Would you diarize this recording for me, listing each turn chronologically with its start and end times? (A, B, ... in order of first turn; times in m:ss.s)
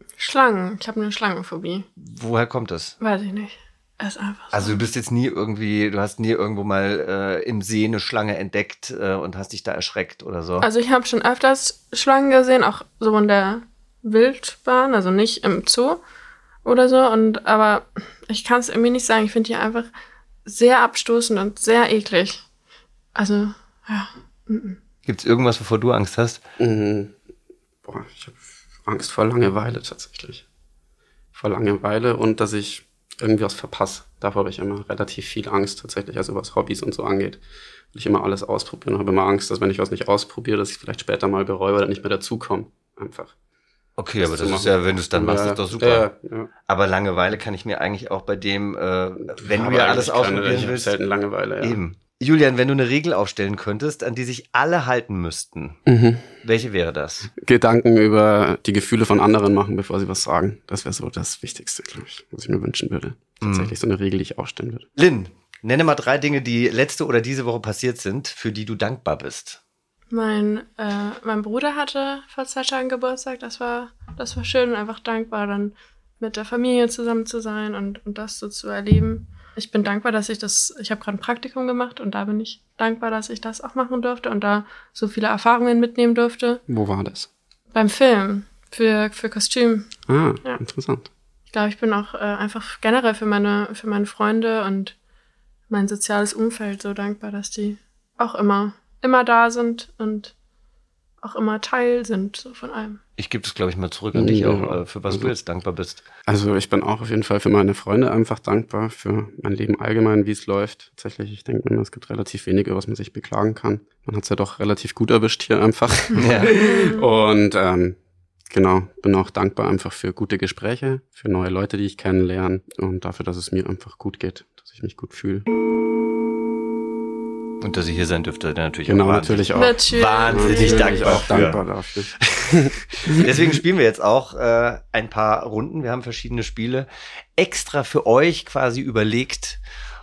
0:00.2-0:01.8 A
0:02.0-0:03.0 B
0:03.0-0:04.8 A
0:04.5-0:10.7 B
0:10.6-0:16.0 A
0:16.6-0:19.9 A
0:20.4-0:22.4 A
0:23.1-0:24.8 A
0:25.0-0:26.4 B
0:26.6-0:27.1 C
0:27.8-0:30.4 C
0:31.3-0:37.4 C
0:37.9-0:43.3 C
0:44.0-0:46.1 B
0:44.2-0:46.5 C
0:46.7-0:50.9 B
0:49.3-0:51.8 C
0:51.6-0:55.8 B
0:55.9-0:56.3 C
0:56.4-0:57.3 B
0:57.4-1:04.9 C
1:03.4-1:03.7 B
1:05.0-1:09.6 B
1:10.1-1:26.6 A
1:26.7-1:27.3 C
1:27.7-1:29.9 A
1:30.1-1:31.1 C
1:31.5-1:35.0 A
1:35.7-1:40.3 A
1:41.2-1:43.0 A
1:43.2-1:46.0 B
1:44.1-1:45.3 C
1:46.3-1:58.0 C
1:56.2-1:56.5 B
1:56.4-1:57.1 A
1:58.5-2:05.5 C
2:07.6-2:11.6 B
2:08.8-2:13.3 C
2:09.5-2:11.3 A
2:12.2-2:19.6 B